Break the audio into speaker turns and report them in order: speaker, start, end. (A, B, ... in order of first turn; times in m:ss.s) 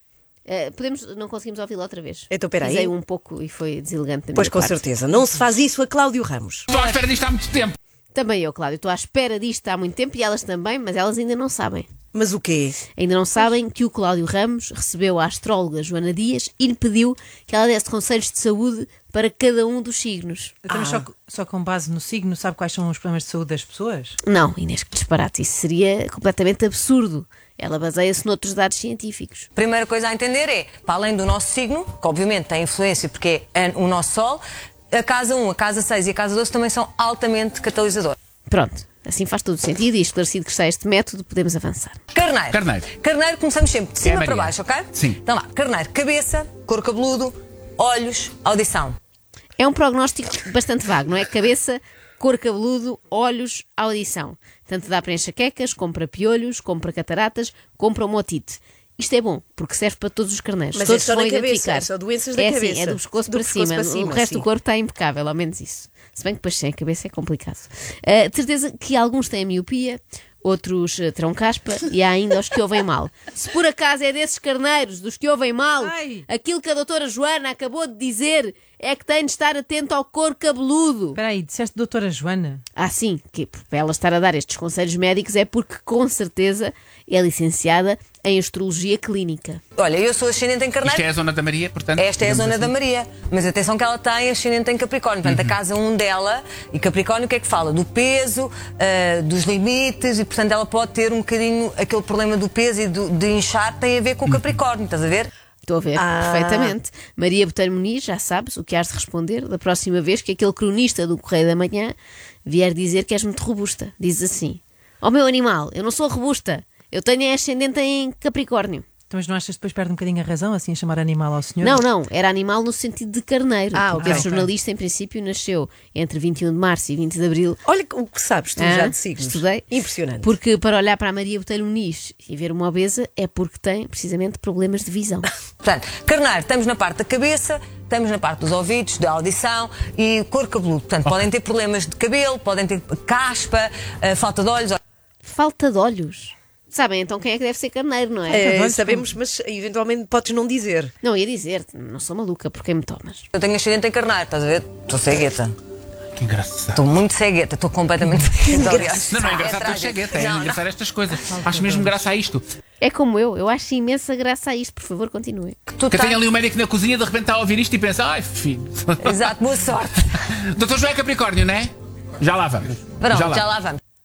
0:00.4-0:04.8 A
0:02.3-0:02.9 B
0:04.3-0:06.6 B
0:06.7-0:07.8 C
0:08.1-0:11.9 A
0:12.1-0:12.8 B
0:13.0-0:20.6 A
0:20.6-0:24.2 D
0:20.7-0:21.1 B
0:24.2-0:29.5 A
0:29.6-0:34.4 E
0:34.9-0:38.2 E
0:38.5-0:42.0 A
0:42.1-0:49.0 E
0:42.5-0:42.9 C
0:44.0-0:45.2 C
0:49.6-1:21.2 A
1:00.7-1:04.4 B
1:15.8-1:16.2 D
1:21.1-1:22.6 D
1:22.7-1:29.6 A
1:29.8-1:31.0 E
1:30.8-1:32.7 C
1:32.0-1:45.3 E
1:35.2-1:35.6 C
1:45.6-1:51.9 A
1:46.0-1:46.7 B
1:52.4-1:58.8 A
1:59.1-2:01.8 D
2:01.6-2:07.6 A
2:03.7-2:04.3 B
2:04.0-2:04.4 D
2:07.6-2:10.3 B
2:08.6-2:09.7 A
2:10.2-2:15.3 A
2:15.6-2:24.8 E
2:25.2-2:28.5 A
2:28.3-2:30.9 B
2:28.3-2:29.1 D
2:31.0-2:33.3 A
2:33.3-2:35.5 E
2:36.2-2:36.8 C
2:36.7-2:40.6 E
2:38.6-2:42.4 C
2:41.3-2:41.9 D
2:42.8-2:45.6 A
2:45.7-2:46.2 E
2:45.9-2:49.2 C
2:49.0-2:50.1 E
2:50.1-2:53.5 C
2:53.0-2:53.8 E